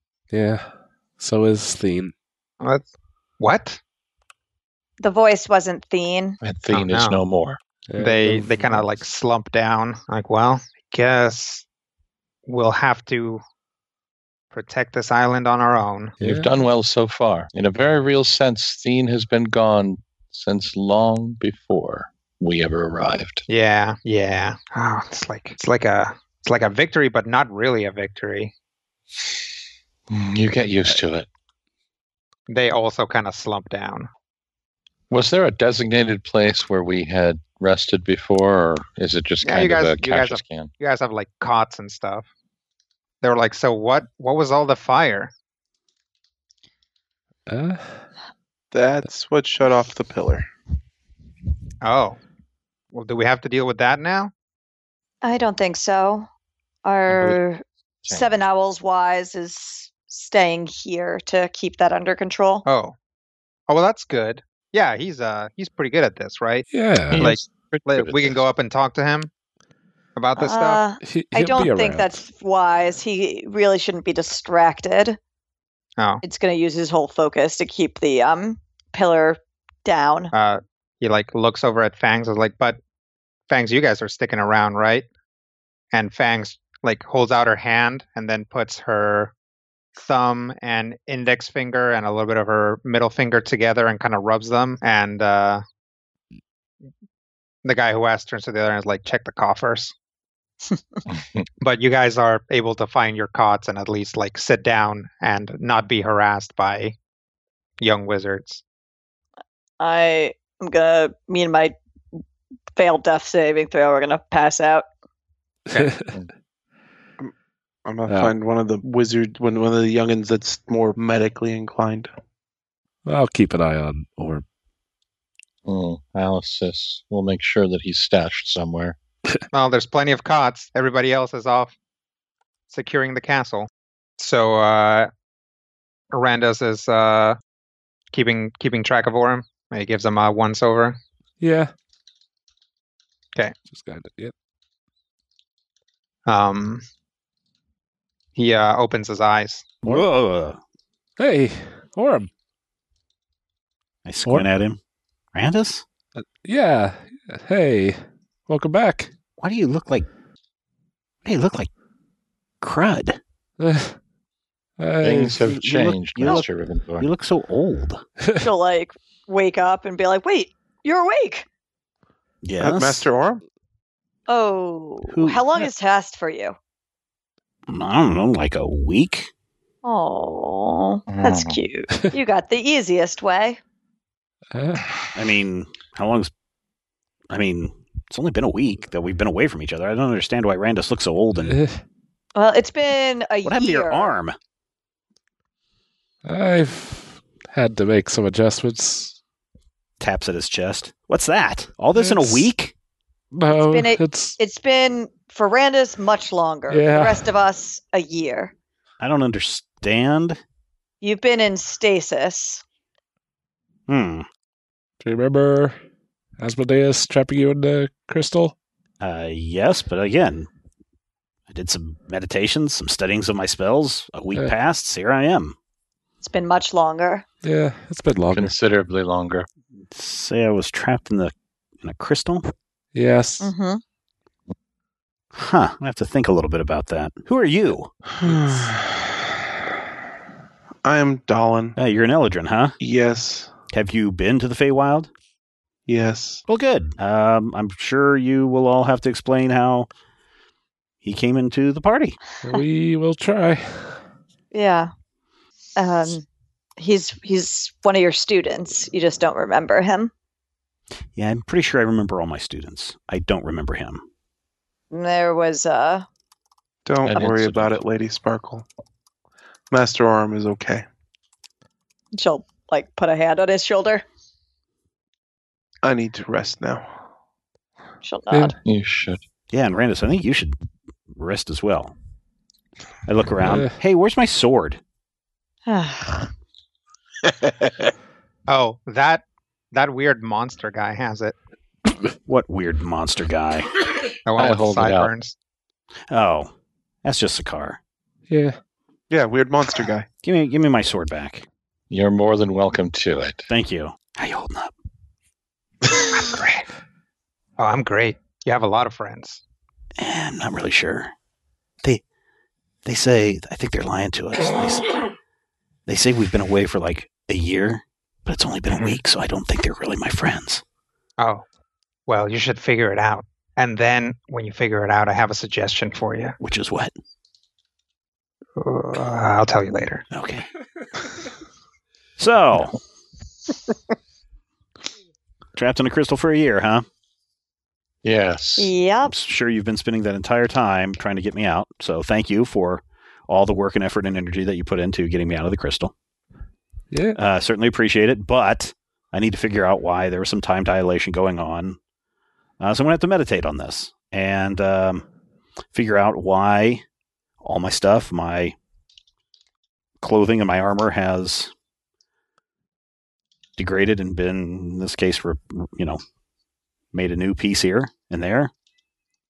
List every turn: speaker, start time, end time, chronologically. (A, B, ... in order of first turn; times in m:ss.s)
0:00.3-0:02.1 A
0:03.4-0:03.8 B
0:05.0-0:06.4 C
0:06.4-0:07.6 D
0:06.7-0:07.2 B
0:07.9-0:08.9 A
0:08.0-0:11.6 B
0:12.5-0:13.4 B
0:14.5-0:16.2 B
0:16.2-0:16.5 A
0:16.2-0:23.4 D
0:23.5-0:28.5 B
0:30.1-0:31.3 D
0:32.5-0:34.1 B
0:35.1-0:40.7 D
0:39.4-0:42.3 B
0:43.2-0:45.3 B
0:47.5-0:48.0 A
0:48.7-0:50.5 E
0:51.8-0:52.2 B
0:52.9-0:54.3 B
0:55.2-0:56.3 C
0:56.8-1:02.6 C
0:57.1-0:57.4 D
1:02.7-1:03.0 B
1:03.7-1:09.3 B
1:06.7-1:07.4 A
1:07.1-1:08.4 D
1:10.2-1:10.8 B
1:10.4-1:15.2 C
1:11.0-1:12.2 A
1:16.2-1:20.3 C
1:20.3-1:22.8 B
1:23.5-1:25.1 B
1:25.9-1:29.3 B
1:30.0-1:35.6 B
1:37.6-1:39.9 B
1:41.1-1:41.4 D
1:41.6-1:47.0 B
1:47.8-1:48.6 B
1:49.8-1:51.8 C
1:52.8-1:54.9 C
1:55.7-1:56.1 A
1:57.9-2:02.1 E
2:03.1-2:04.4 A
2:05.7-2:09.0 D
2:09.5-2:11.8 B
2:12.7-2:15.1 B
2:16.1-2:17.4 B
2:18.1-2:21.0 B
2:21.4-2:21.7 A
2:23.7-2:24.3 A
2:26.3-2:26.8 B
2:28.4-2:29.7 B
2:29.8-2:30.6 F
2:31.2-2:32.3 A
2:34.0-2:34.8 F
2:35.3-2:35.8 F
2:36.2-2:39.1 A
2:39.4-2:40.1 F
2:41.2-2:41.7 F
2:42.6-2:43.2 F
2:43.6-2:44.0 A
2:44.8-2:45.4 A
2:45.0-2:47.1 D
2:45.4-2:46.4 F
2:47.0-2:48.0 F
2:48.4-2:51.5 C
2:52.4-2:53.1 F
2:52.6-2:53.4 E
2:54.3-2:56.6 C
2:55.1-2:55.4 F
2:57.7-2:59.3 F
2:59.8-3:03.6 C
3:01.1-3:01.6 D
3:04.5-3:04.9 A
3:05.1-3:06.3 F
3:07.3-3:11.6 F
3:11.5-3:11.8 A
3:12.4-3:14.1 C
3:13.4-3:14.4 F
3:16.2-3:19.2 A
3:20.0-3:22.7 F
3:21.9-3:22.4 A
3:23.3-3:24.4 A
3:23.5-3:28.5 C
3:26.7-3:27.3 A
3:29.0-3:30.4 F
3:31.0-3:32.6 C
3:33.9-3:34.3 F
3:35.0-3:35.8 A
3:36.4-3:38.6 A
3:39.0-3:40.5 F
3:41.5-3:45.6 F
3:46.2-3:47.2 C
3:47.4-3:48.5 A
3:48.3-3:49.5 D
3:49.9-3:52.5 F
3:52.9-3:53.5 A
3:53.4-3:53.8 C
3:55.3-3:58.7 F
3:58.2-3:58.8 E
4:00.8-4:01.8 E
4:01.8-4:02.8 F
4:02.8-4:03.5 E
4:03.7-4:05.1 F
4:05.9-4:06.4 E
4:06.5-4:09.9 F
4:11.0-4:12.2 F
4:12.4-4:14.0 A
4:14.5-4:14.9 C
4:15.8-4:16.2 C
4:16.8-4:20.1 C
4:21.2-4:24.0 F
4:24.9-4:26.1 C
4:26.9-4:28.6 E
4:27.0-4:27.8 D
4:29.7-4:30.8 E
4:32.1-4:34.0 C
4:35.8-4:37.0 E
4:38.0-4:38.6 C
4:38.6-4:39.2 D
4:39.5-4:40.5 F
4:41.1-4:41.9 F
4:43.1-4:44.8 F
4:43.5-4:43.7 A
4:45.7-4:46.3 C
4:48.5-4:51.4 B
4:52.3-4:53.7 F
4:54.3-4:55.3 B
4:54.4-4:55.1 D
4:56.1-4:56.5 F
4:57.0-4:57.8 F
4:58.3-4:58.6 A
4:59.1-5:00.1 E
5:00.2-5:01.5 F
5:01.9-5:03.5 D
5:03.5-5:04.7 F
5:06.1-5:06.6 B
5:07.6-5:09.4 B
5:10.0-5:11.1 F
5:12.8-5:14.9 F
5:15.9-5:20.6 F
5:21.2-5:21.4 B
5:22.1-5:26.4 B
5:26.4-5:26.9 F
5:28.6-5:30.0 B
5:30.1-5:30.5 F
5:32.2-5:32.8 F
5:35.6-5:36.8 F
5:38.0-5:38.7 D
5:38.6-5:39.1 C
5:39.0-5:45.9 F
5:46.9-5:47.2 A
5:47.2-5:51.8 F
5:52.6-5:55.1 F
5:55.7-5:56.8 F
5:57.4-5:58.6 F
6:00.0-6:01.5 F
6:03.6-6:06.0 F
6:06.9-6:08.5 F